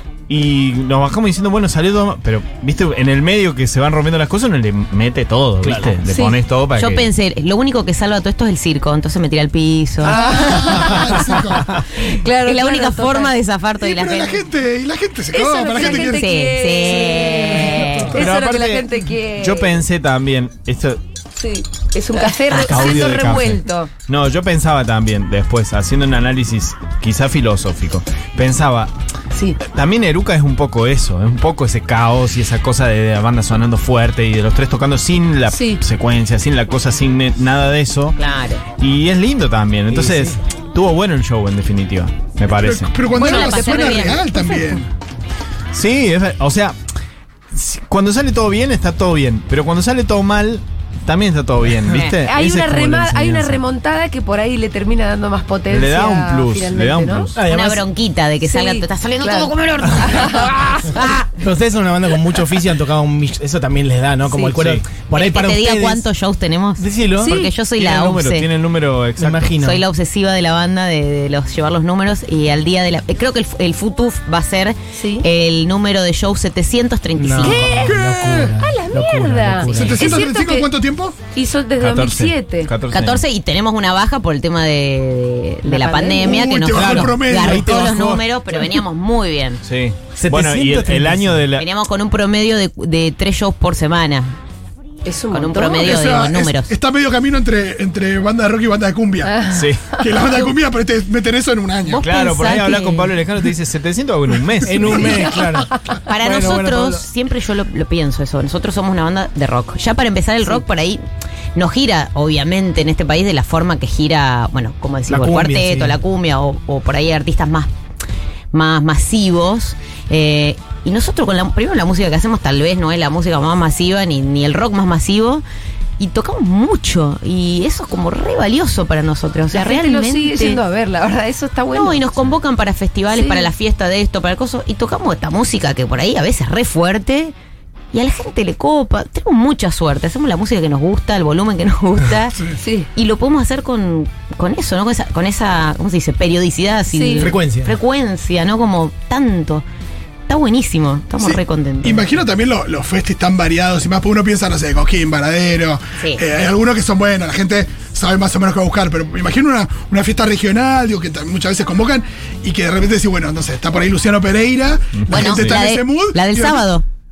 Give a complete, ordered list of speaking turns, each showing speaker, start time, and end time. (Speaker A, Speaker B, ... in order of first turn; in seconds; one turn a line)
Speaker A: 0.3-7.0
Speaker B: 5.6-6.0
Speaker C: 6.1-6.3
Speaker D: 6.8-10.2
Speaker C: 10.0-11.4
Speaker E: 10.0-11.8
Speaker C: 11.9-13.3
Speaker D: 12.4-14.4
Speaker E: 13.8-16.3
Speaker C: 15.3-19.8
Speaker D: 15.8-18.2
Speaker E: 17.6-18.1
Speaker A: 18.1-21.0
Speaker C: 21.4-23.9
Speaker A: 22.5-28.9
Speaker A: 29.6-38.2
Speaker C: 35.5-35.8
Speaker D: 38.2-38.6
Speaker A: 38.7-43.0
Speaker B: 39.9-40.4
Speaker E: 42.5-44.9
Speaker C: 43.1-44.8
Speaker D: 43.1-44.2
Speaker A: 45.7-46.8
Speaker A: 47.5-53.6
Speaker D: 51.8-52.1
Speaker C: 52.2-57.3
Speaker A: 55.7-57.4
Speaker B: 57.3-57.8
Speaker D: 57.5-61.3
Speaker C: 58.4-61.0
Speaker B: 61.3-66.1
Speaker A: 64.5-64.8
Speaker D: 65.1-68.5
Speaker B: 66.8-67.5
Speaker C: 67.2-67.5
Speaker A: 67.8-69.6
Speaker B: 69.2-69.8
Speaker D: 69.6-77.7
Speaker C: 74.9-75.2
Speaker B: 77.2-80.1
Speaker C: 77.4-80.7
Speaker E: 78.0-78.5
Speaker E: 79.7-81.2
Speaker C: 81.3-82.7
Speaker A: 81.8-83.2
Speaker D: 82.9-89.6
Speaker C: 85.6-86.5
Speaker E: 86.2-87.8
Speaker B: 86.6-88.3
Speaker A: 89.6-91.7
Speaker B: 90.2-91.5
Speaker D: 91.6-94.3
Speaker C: 95.0-96.2
Speaker D: 95.3-96.7
Speaker E: 95.8-102.0
Speaker C: 99.2-100.5
Speaker A: 99.5-100.0
Speaker D: 101.8-103.2
Speaker A: 102.0-105.2
Speaker B: 104.6-107.0
Speaker D: 106.0-111.0
Speaker D: 111.5-117.7
Speaker B: 115.1-116.0
Speaker D: 118.5-125.4
Speaker D: 126.0-130.6
Speaker C: 129.5-132.0
Speaker D: 131.7-137.3
Speaker C: 133.1-133.5
Speaker D: 137.9-142.4
Speaker C: 142.6-142.9
Speaker D: 142.9-149.6
Speaker C: 146.9-147.3
Speaker B: 147.2-147.7
Speaker D: 150.3-152.0
Speaker E: 151.2-166.7
Speaker A: 164.9-165.6
Speaker D: 165.1-166.8